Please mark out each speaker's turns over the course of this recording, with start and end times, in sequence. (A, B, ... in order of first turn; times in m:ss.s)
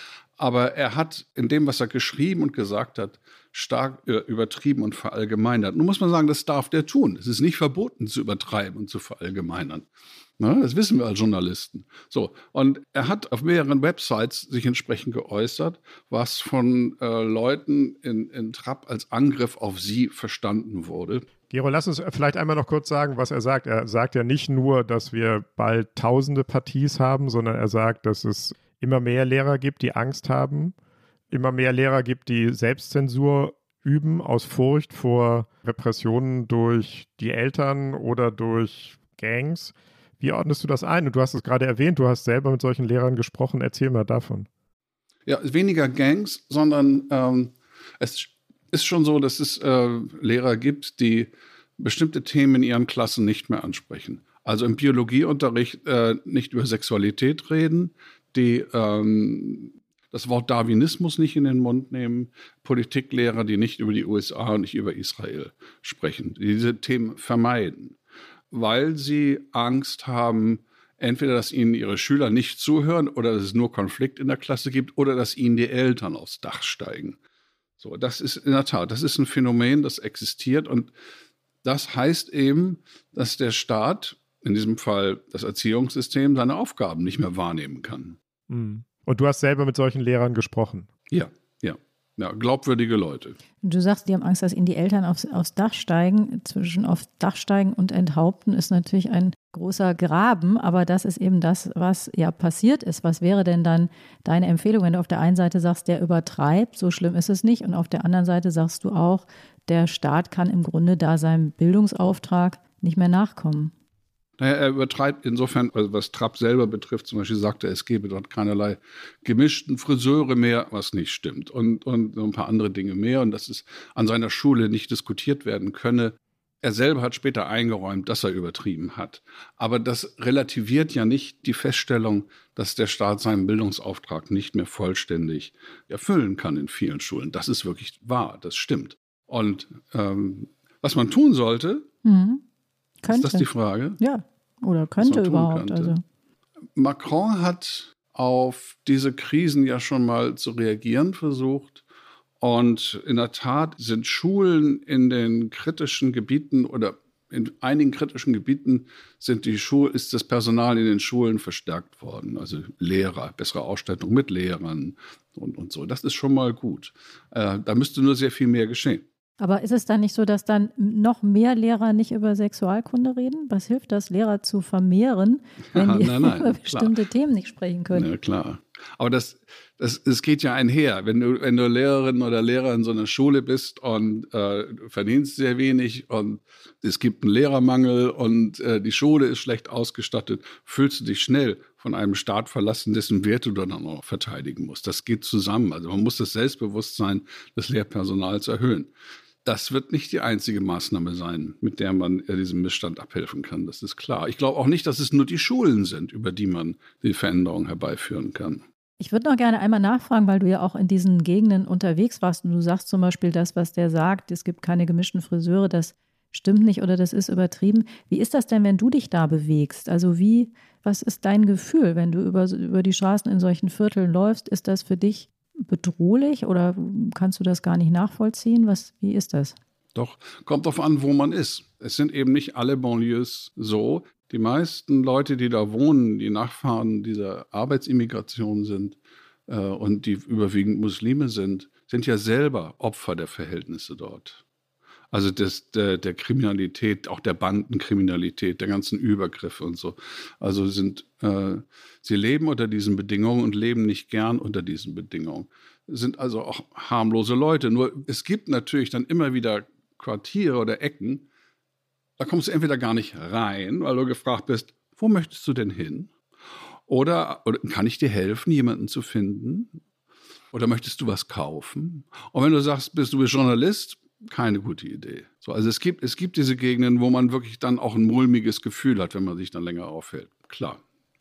0:00.4-0:09.8 A
0:10.4-0:21.2 A
0:21.5-0:30.8 B
0:31.3-0:44.5 B
0:45.3-1:08.0 A
1:08.5-1:17.2 A
1:17.8-1:20.9 A
1:21.6-1:28.2 A
1:28.5-1:30.9 B
1:31.1-1:33.4 A
1:33.6-1:53.7 C
1:54.4-2:21.9 A
2:22.0-2:22.4 C
2:23.0-2:23.5 C
2:23.1-2:24.0 A
2:24.0-2:26.0 C
2:25.0-2:26.0 A
2:26.8-2:31.8 A
2:32.4-2:49.0 A
2:49.4-2:58.1 C
2:55.7-2:57.0 A
2:57.9-3:18.9 A
3:19.4-3:28.6 A
3:29.0-3:49.6 C
3:50.0-3:59.0 A
3:59.5-4:04.4 A
4:05.1-4:21.3 A
4:22.2-4:26.1 A
4:26.9-4:29.8 A
4:30.5-4:40.8 A